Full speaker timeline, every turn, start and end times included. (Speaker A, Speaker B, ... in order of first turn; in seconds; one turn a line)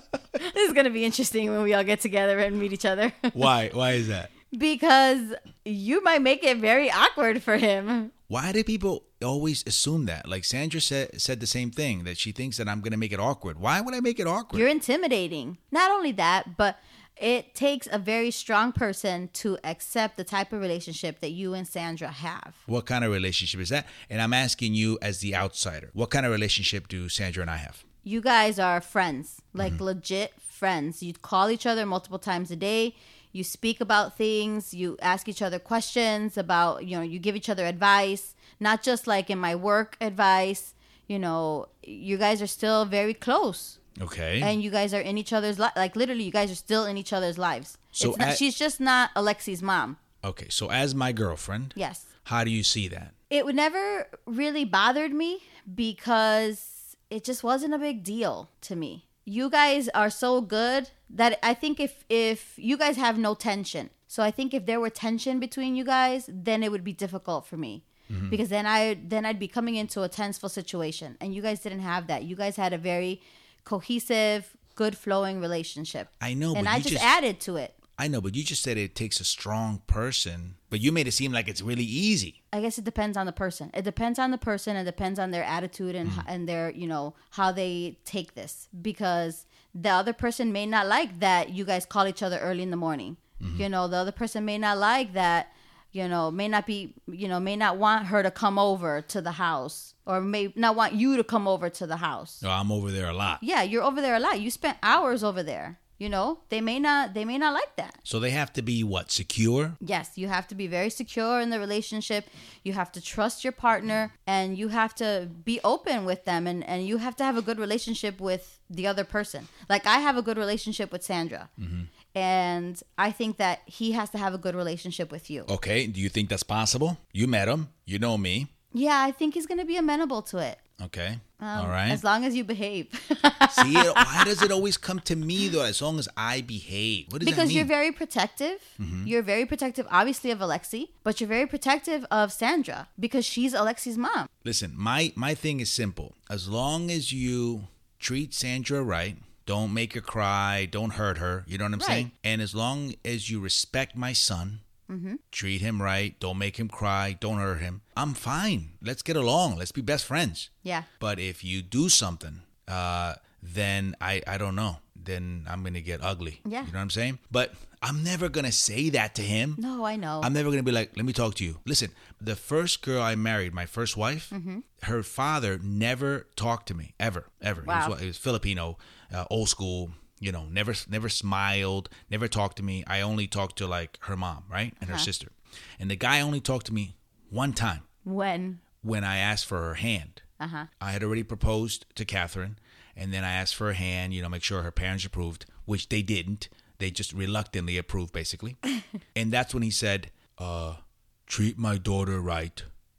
Speaker A: 0.4-3.5
Speaker B: 3.3-4.3
Speaker A: 4.5-8.1
Speaker B: 8.3-14.7
Speaker A: 14.5-22.6
Speaker B: 22.7-27.8
Speaker A: 28.0-43.8
Speaker B: 44.0-44.5
Speaker A: 44.4-50.0
Speaker B: 48.0-48.4
Speaker B: 50.2-53.1
Speaker A: 51.8-52.0
Speaker A: 53.3-77.7
Speaker B: 68.1-68.4
Speaker B: 76.2-77.1
Speaker B: 78.0-82.4
Speaker A: 82.5-102.4
Speaker B: 93.4-93.7
Speaker B: 102.4-103.4
Speaker A: 103.4-108.0
Speaker B: 108.0-109.8
Speaker A: 109.8-121.5
Speaker B: 121.6-121.9
Speaker A: 122.1-125.5
Speaker B: 125.5-128.5
Speaker A: 128.7-130.6
Speaker B: 130.8-132.0
Speaker A: 131.4-134.4
Speaker B: 133.5-137.7
Speaker A: 137.2-144.3
Speaker B: 138.8-139.1
Speaker B: 144.4-154.6
Speaker A: 151.8-152.1
Speaker A: 154.9-155.2
Speaker B: 155.3-169.6
Speaker A: 166.4-166.7
Speaker A: 169.6-170.3
Speaker B: 170.2-187.8
Speaker A: 174.3-174.6
Speaker A: 177.6-177.9
Speaker A: 184.8-185.1
Speaker A: 188.0-188.6
Speaker B: 188.8-190.2
Speaker A: 190.4-190.7
Speaker B: 190.8-198.6
Speaker B: 199.1-202.7